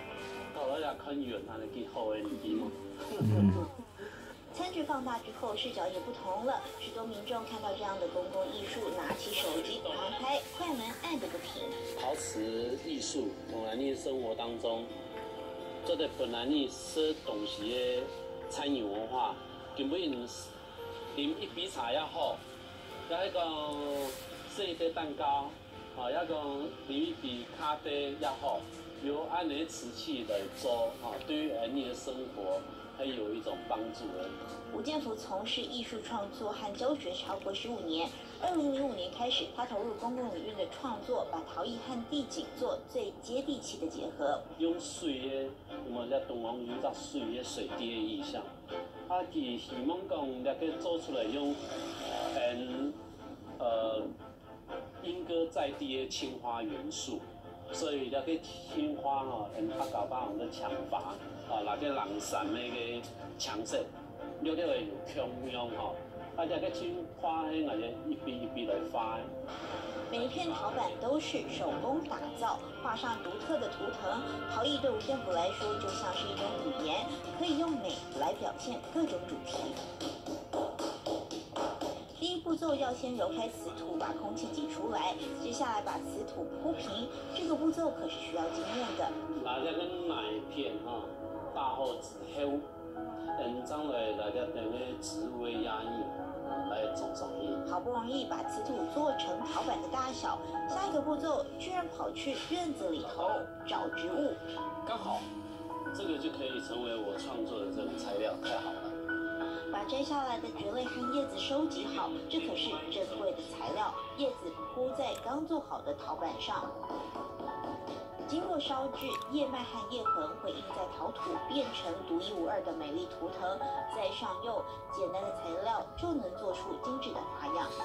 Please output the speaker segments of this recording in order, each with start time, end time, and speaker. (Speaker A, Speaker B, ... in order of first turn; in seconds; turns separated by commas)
Speaker A: 0.5-3.5, Speaker B: 4.5-11.8, Speaker A: 9.3-10.2, Speaker A: 11.9-14.9, Speaker A: 15.8-20.5, Speaker A: 21.1-22.4, Speaker A: 23.1-34.4, Speaker B: 34.7-44.4, Speaker A: 44.6-48.5, Speaker A: 49.1-51.6, Speaker A: 52.3-53.0, Speaker A: 53.6-54.1, Speaker A: 55.0-69.3, Speaker B: 70.1-79.8, Speaker A: 70.1-71.6, Speaker B: 82.2-89.1, Speaker A: 89.3-92.7, Speaker A: 93.3-97.7, Speaker B: 97.7-104.4, Speaker A: 103.0-103.5, Speaker A: 104.8-105.2, Speaker A: 105.9-109.0, Speaker B: 109.7-116.7, Speaker A: 111.7-114.8, Speaker B: 118.2-127.7